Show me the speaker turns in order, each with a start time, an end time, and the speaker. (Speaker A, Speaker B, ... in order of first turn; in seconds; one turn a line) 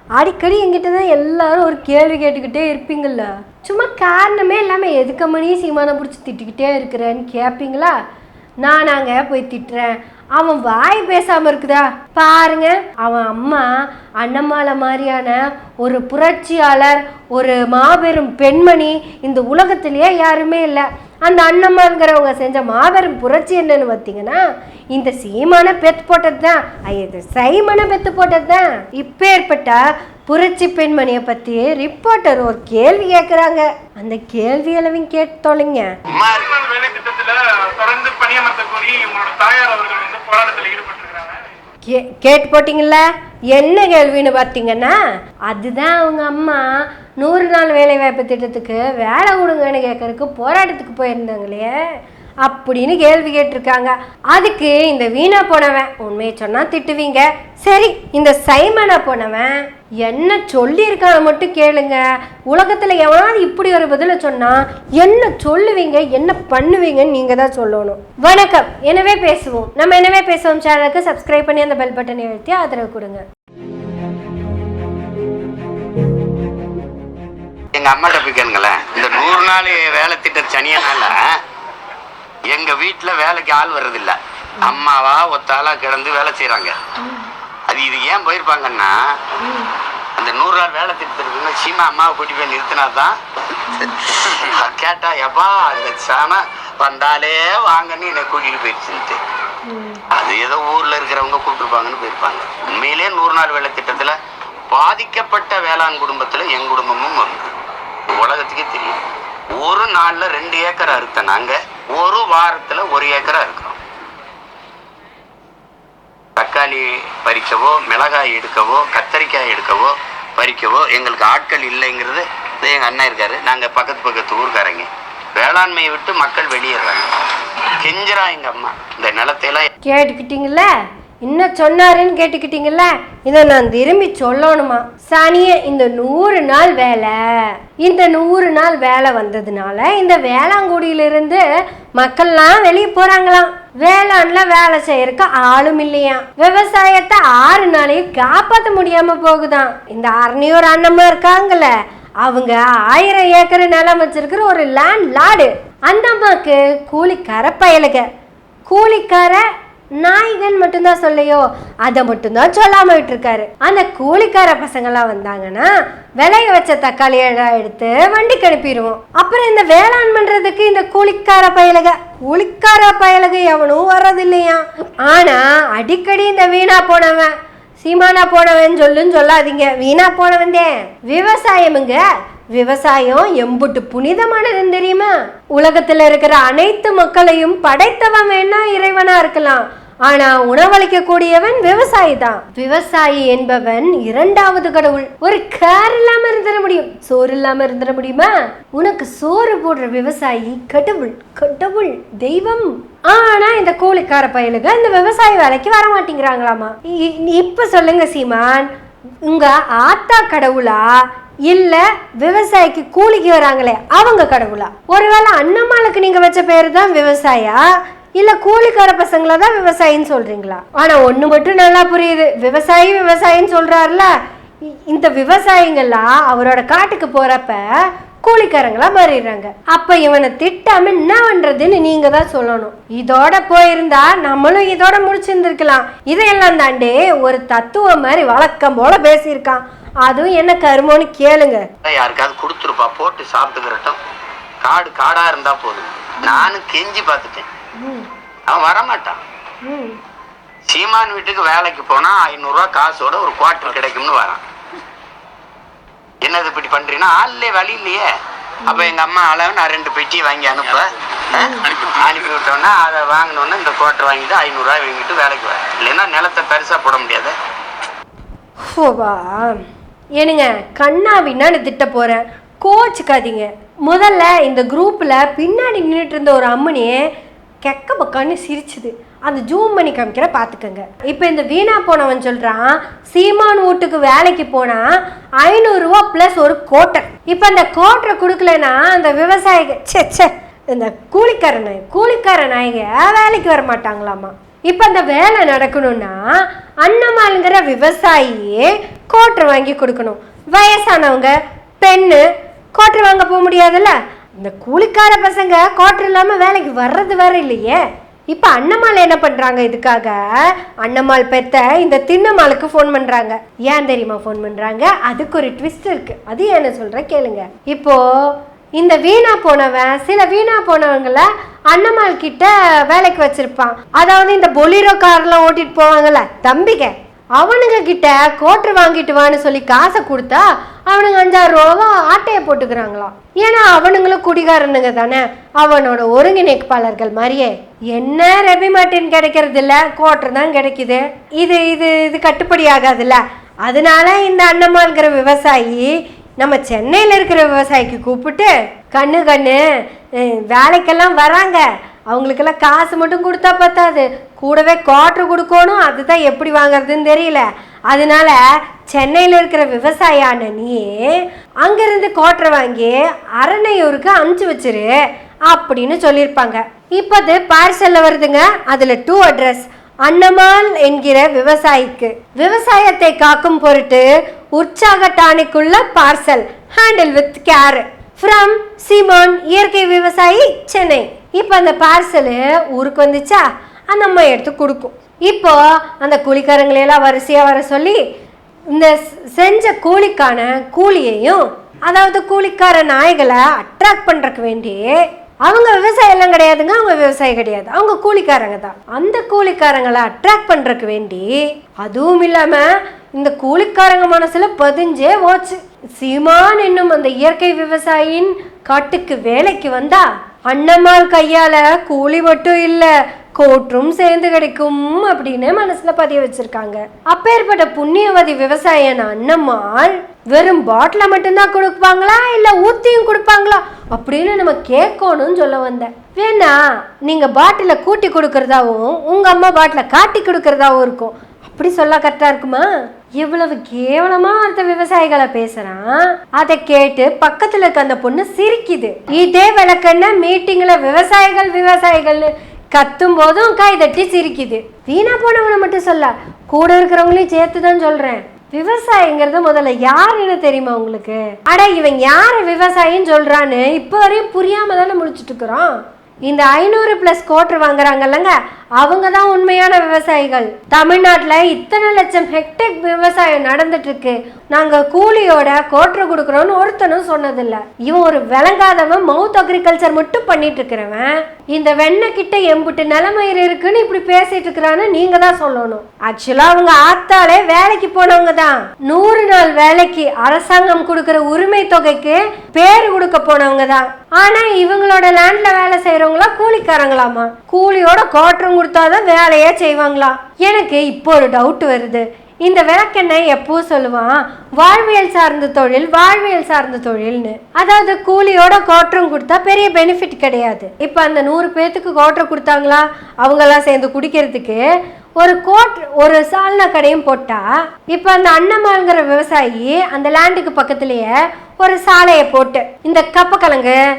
Speaker A: 0.2-8.0
Speaker A: 8.6-24.4
Speaker A: 24.9-35.9
Speaker B: 36.1-36.6
Speaker C: 36.6-41.4
Speaker A: 41.9-43.0
Speaker A: 43.5-45.0
Speaker A: 45.5-51.7
Speaker A: 52.4-73.2
Speaker B: 77.7-81.4
Speaker B: 82.5-86.8
Speaker A: 87.0-87.3
Speaker B: 87.7-89.0
Speaker A: 89.4-89.7
Speaker B: 90.2-99.2
Speaker A: 99.7-100.0
Speaker B: 100.1-104.2
Speaker B: 104.7-107.5
Speaker B: 108.1-109.0
Speaker B: 109.5-113.8
Speaker B: 116.4-127.1
Speaker B: 127.8-129.7
Speaker A: 129.8-130.7
Speaker A: 131.2-141.4
Speaker A: 141.9-158.1
Speaker A: 158.7-159.4
Speaker A: 160.0-182.0
Speaker A: 182.6-208.7
Speaker A: 209.2-210.9
Speaker A: 211.5-217.7
Speaker A: 218.2-224.1
Speaker A: 224.9-241.7
Speaker B: 241.8-244.0
Speaker B: 244.6-247.5
Speaker A: 246.2-246.5
Speaker A: 247.8-248.1
Speaker B: 248.5-249.2
Speaker A: 249.6-250.0
Speaker B: 250.7-254.4
Speaker B: 256.2-258.1
Speaker A: 258.6-258.9
Speaker B: 258.7-267.4
Speaker A: 261.3-261.6
Speaker A: 268.6-269.6
Speaker A: 270.2-277.0
Speaker A: 277.6-302.2
Speaker A: 302.8-349.6
Speaker A: 350.2-365.0
Speaker A: 365.5-388.0
Speaker A: 388.7-455.7
Speaker A: 456.3-504.6
Speaker A: 505.2-513.8